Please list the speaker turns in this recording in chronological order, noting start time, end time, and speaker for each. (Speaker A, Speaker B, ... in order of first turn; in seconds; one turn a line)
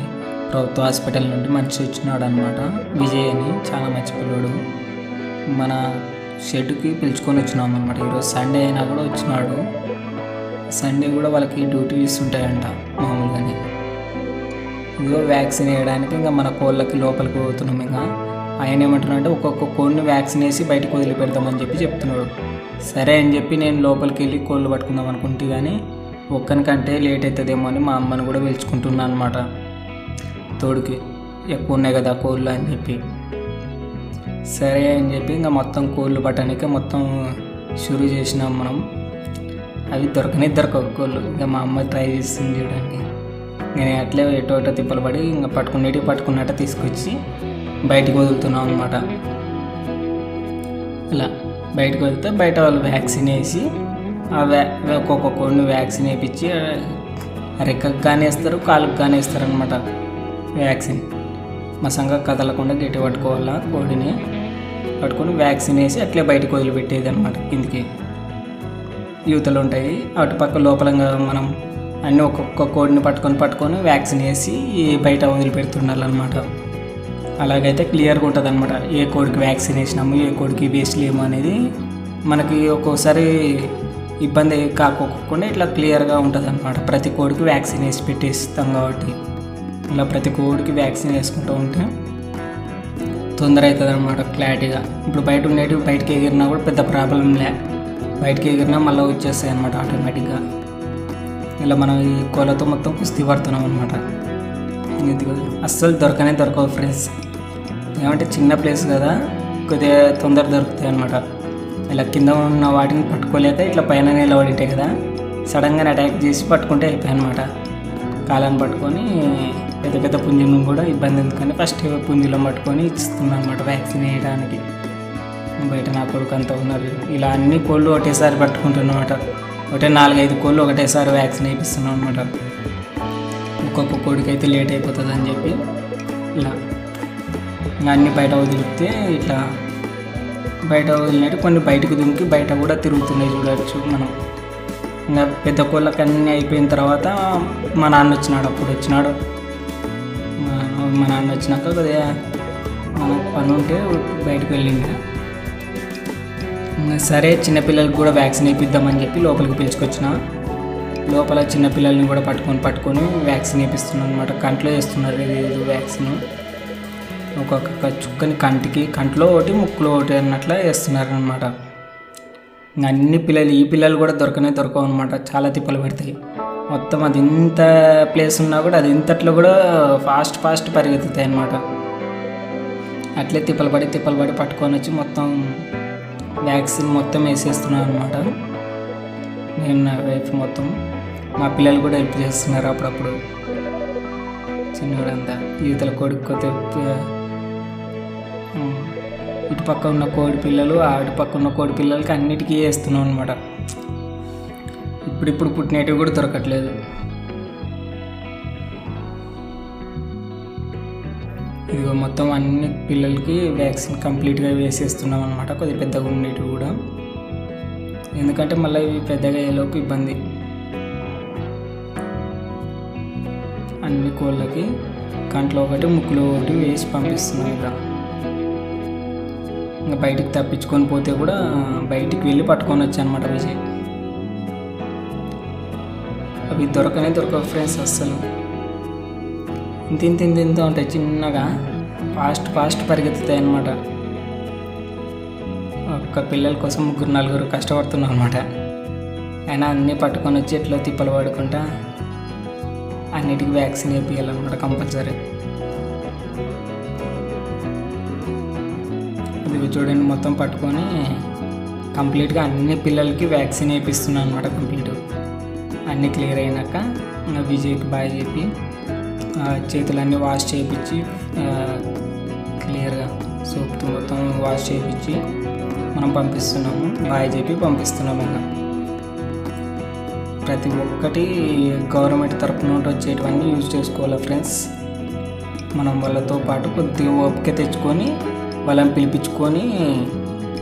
Speaker A: 0.5-4.5
Speaker A: 5.5-5.8
Speaker A: 6.4-9.6
Speaker A: 10.7-13.6
Speaker A: 15.0-18.0
Speaker A: 18.6-22.3
Speaker A: 22.9-25.8
Speaker A: 26.3-29.4
Speaker A: 30.6-31.0
Speaker A: 31.5-33.0
Speaker A: 34.5-37.1
Speaker A: 37.8-38.8
Speaker A: 39.9-43.0
Speaker A: 43.8-47.1
Speaker A: 47.9-49.0
Speaker A: 51.1-53.6
Speaker A: 54.3-56.9
Speaker A: 57.6-59.8
Speaker A: 60.6-61.0
Speaker A: 61.8-64.1
Speaker A: 65.0-67.8
Speaker A: 69.3-71.5
Speaker A: 72.0-76.5
Speaker A: 77.4-81.6
Speaker A: 82.3-83.7
Speaker A: 84.2-89.2
Speaker A: 89.9-91.9
Speaker A: 93.4-97.5
Speaker A: 98.2-100.4
Speaker A: 101.6-104.0
Speaker A: 105.0-107.1
Speaker A: 108.0-109.2
Speaker A: 109.7-111.2
Speaker A: 111.9-114.9
Speaker A: 115.5-117.5
Speaker A: 118.3-124.6
Speaker A: 125.6-129.2
Speaker A: 129.7-132.3
Speaker A: 133.6-135.6
Speaker A: 137.8-139.4
Speaker A: 140.7-144.1
Speaker A: 145.1-149.1
Speaker A: 150.4-152.0
Speaker A: 153.0-154.9
Speaker A: 156.8-160.1
Speaker A: 161.1-166.2
Speaker A: 167.4-171.5
Speaker A: 172.8-176.1
Speaker A: 176.7-181.6
Speaker A: 183.2-185.3
Speaker A: 186.4-188.3
Speaker A: 189.6-190.7
Speaker A: 191.4-193.2
Speaker A: 194.7-197.1
Speaker A: 198.6-198.9
Speaker A: 199.5-203.4
Speaker A: 205.1-206.7
Speaker A: 211.7-216.7
Speaker A: 218.2-220.2
Speaker A: 223.8-224.7
Speaker A: 225.3-227.7
Speaker A: 229.9-233.6
Speaker A: 236.5-238.2
Speaker A: 239.9-241.5
Speaker A: 242.1-243.7
Speaker A: 245.9-248.4
Speaker A: 249.5-251.6
Speaker A: 253.2-255.2
Speaker A: 259.4-260.9
Speaker A: 261.9-265.0
Speaker A: 265.9-268.5
Speaker A: 269.4-271.8
Speaker A: 272.6-275.2
Speaker A: 275.9-278.4
Speaker A: 280.4-281.3
Speaker A: 281.9-284.6
Speaker A: 285.8-288.1
Speaker A: 288.6-290.1